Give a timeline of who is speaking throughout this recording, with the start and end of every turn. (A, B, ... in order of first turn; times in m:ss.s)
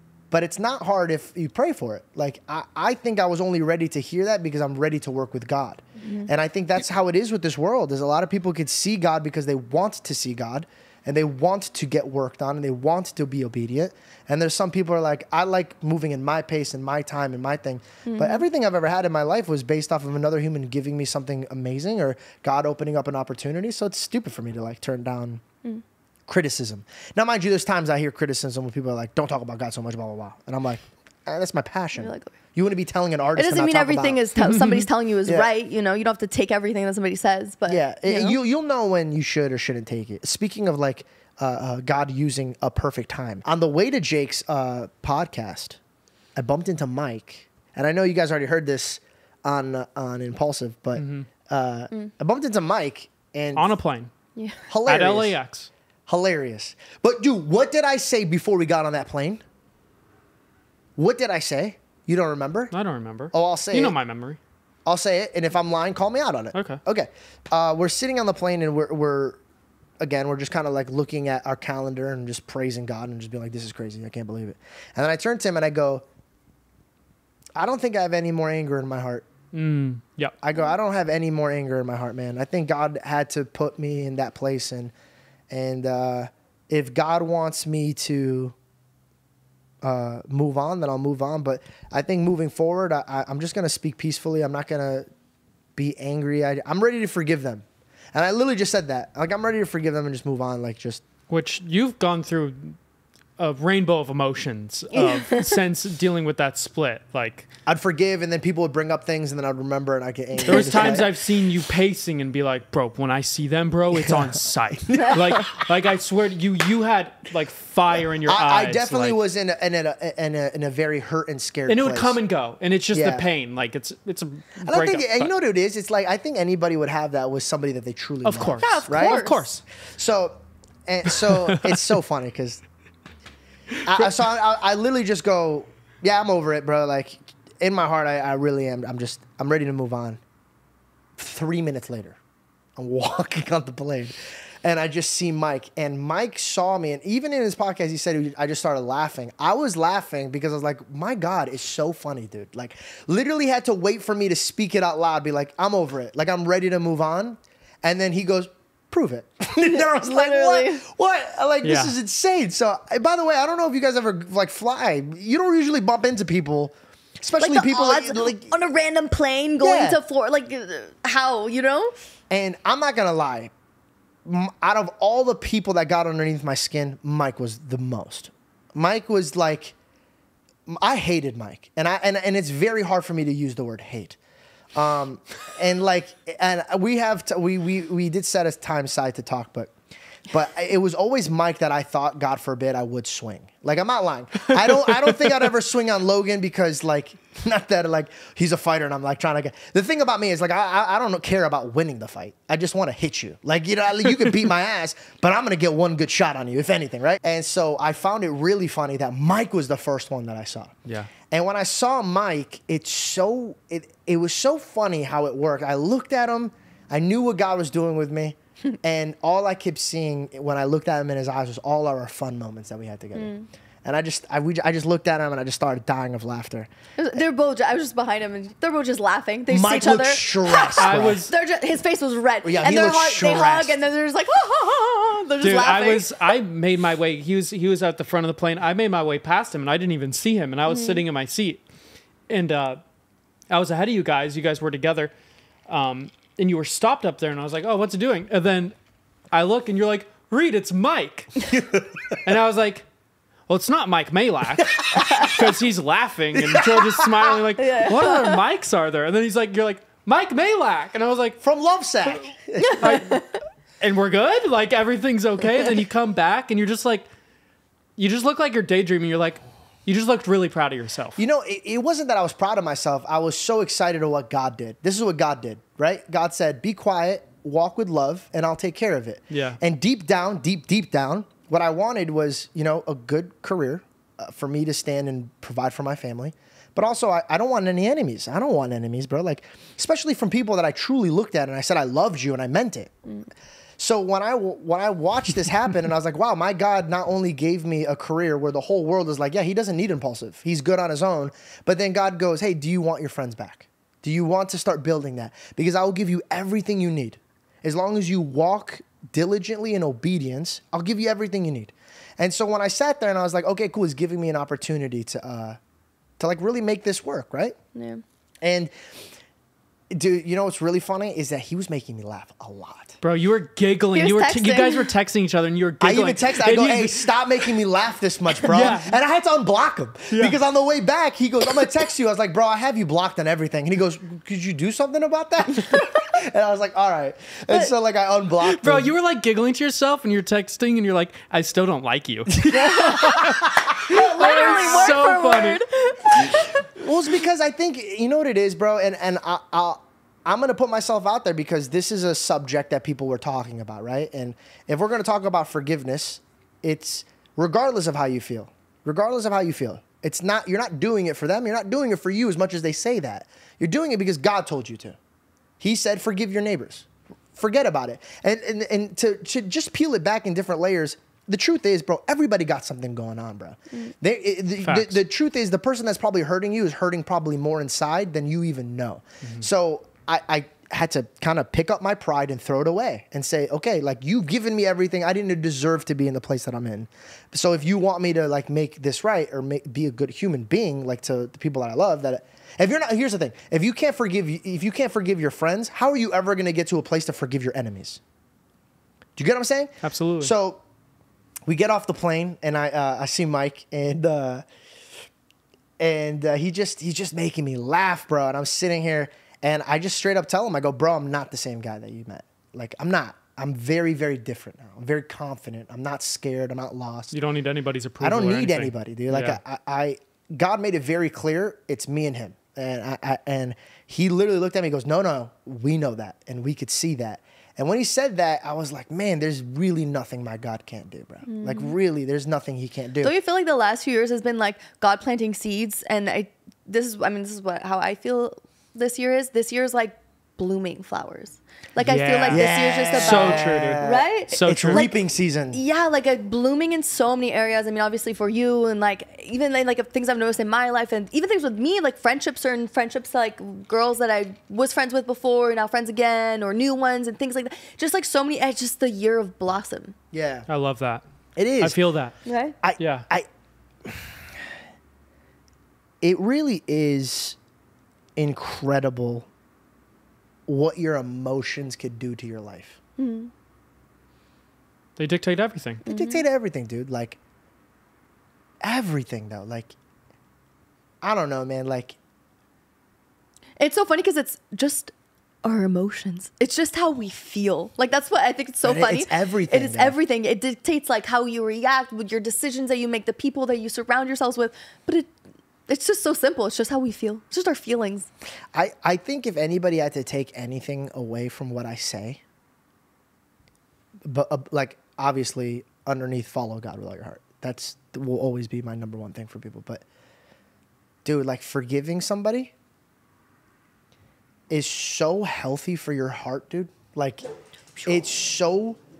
0:00.3-0:25.4 A
0:06.0-0:06.3 B
0:18.0-0:18.4 B
0:26.3-0:34.2 A
0:32.0-0:32.3 B
0:33.4-0:38.4 B
0:34.4-0:34.9 C
0:37.7-0:45.8 A
0:46.4-0:53.7 A
0:51.0-0:51.3 C
0:53.5-0:54.1 C
0:54.4-0:54.6 B
0:54.7-0:55.4 A
0:54.8-0:55.7 C
0:56.1-0:59.4 A
1:01.0-1:02.7 A
1:02.7-1:04.4 C
1:03.3-1:04.0 A
1:04.8-1:09.4 A
1:06.5-1:06.8 C
1:10.0-1:16.0 A
1:17.6-1:19.2 A
1:19.5-1:20.4 C
1:20.4-1:24.9 A
1:25.5-1:28.5 A
1:29.8-1:35.0 A
1:35.8-1:41.0 A
1:41.3-1:42.8 C
1:43.4-1:47.5 C
1:45.0-1:45.5 B
1:47.6-1:51.1 A
1:50.4-1:51.0 B
1:50.4-1:59.2 C
1:54.8-1:55.2 A
1:58.2-2:02.2 A
2:01.7-2:05.3 C
2:02.9-2:03.3 A
2:04.6-2:09.3 A
2:08.2-2:09.6 C
2:08.6-2:09.4 B
2:10.0-2:12.6 A
2:11.3-2:11.8 C
2:13.8-2:20.2 A
2:21.2-2:22.2 A
2:22.8-2:48.5 A
2:39.6-2:40.8 B
2:41.6-2:41.9 C
2:47.4-2:51.9 B
2:49.6-2:50.0 A
2:52.3-2:53.5 A
2:54.2-2:59.7 A
3:00.7-3:04.2 A
3:04.7-3:09.7 A
3:10.3-3:30.7 A
3:14.6-3:15.1 C
3:30.8-3:31.1 C
3:31.3-3:43.3 A
3:43.1-3:43.5 B
3:43.8-3:47.2 A
3:47.0-3:56.1 B
3:49.5-3:51.3 A
3:50.8-3:51.3 C
3:52.4-3:53.8 A
3:55.4-4:01.6 C
4:00.7-4:01.0 B
4:02.3-4:02.8 C
4:03.5-4:05.1 C
4:05.7-4:08.7 C
4:09.3-4:11.5 C
4:11.5-4:12.2 A
4:12.2-4:12.8 C
4:13.5-4:21.4 C
4:14.7-4:15.4 A
4:16.3-4:17.4 A
4:17.6-4:18.4 B
4:21.4-4:23.0 A
4:22.6-4:23.4 B
4:22.8-4:23.2 C
4:23.8-4:27.1 C
4:28.0-4:31.2 C
4:31.2-4:52.9 A
4:39.3-4:39.6 C
4:53.8-5:15.6 A
5:16.2-5:17.6 A
5:17.7-5:18.0 B
5:18.4-5:18.7 A
5:19.9-5:23.0 A
5:23.0-5:27.5 C
5:23.9-5:24.9 B
5:25.8-5:38.9 A
5:28.4-5:29.0 C
5:30.1-5:30.4 C
5:38.4-5:45.6 C
5:42.5-5:43.3 B
5:42.8-5:44.9 A
5:43.8-5:46.6 B
5:46.7-6:05.0 A
6:05.6-6:38.0 A
6:14.6-6:15.0 C
6:19.2-6:19.5 C
6:39.2-6:40.6 A
6:39.8-6:40.3 C
6:41.5-6:44.4 A
6:45.8-6:57.1 A
6:57.1-6:59.4 C
6:58.0-7:13.1 A
7:11.3-7:11.7 B
7:13.0-7:25.0 B
7:21.8-7:24.9 C
7:22.3-7:25.6 A
7:25.5-7:39.9 B
7:40.1-7:40.4 A
7:40.5-7:41.0 C
7:41.4-7:41.8 A
7:41.6-7:42.1 C
7:42.2-7:42.6 B
7:42.6-7:43.2 A
7:42.8-7:43.0 C
7:46.0-7:47.4 A
7:48.2-7:49.3 A
7:50.5-7:52.8 A
7:53.0-7:53.3 B
7:55.0-7:55.8 C
7:55.8-7:56.2 B
7:55.8-7:57.2 A
7:58.6-7:59.7 A
8:01.0-8:02.0 A
8:03.6-8:04.9 B
8:05.4-8:15.1 B
8:08.6-8:09.9 A
8:15.7-8:18.1 B
8:18.5-8:22.2 A
8:24.0-8:29.8 A
8:31.0-8:32.5 A
8:34.5-8:37.2 A
8:37.8-8:38.8 A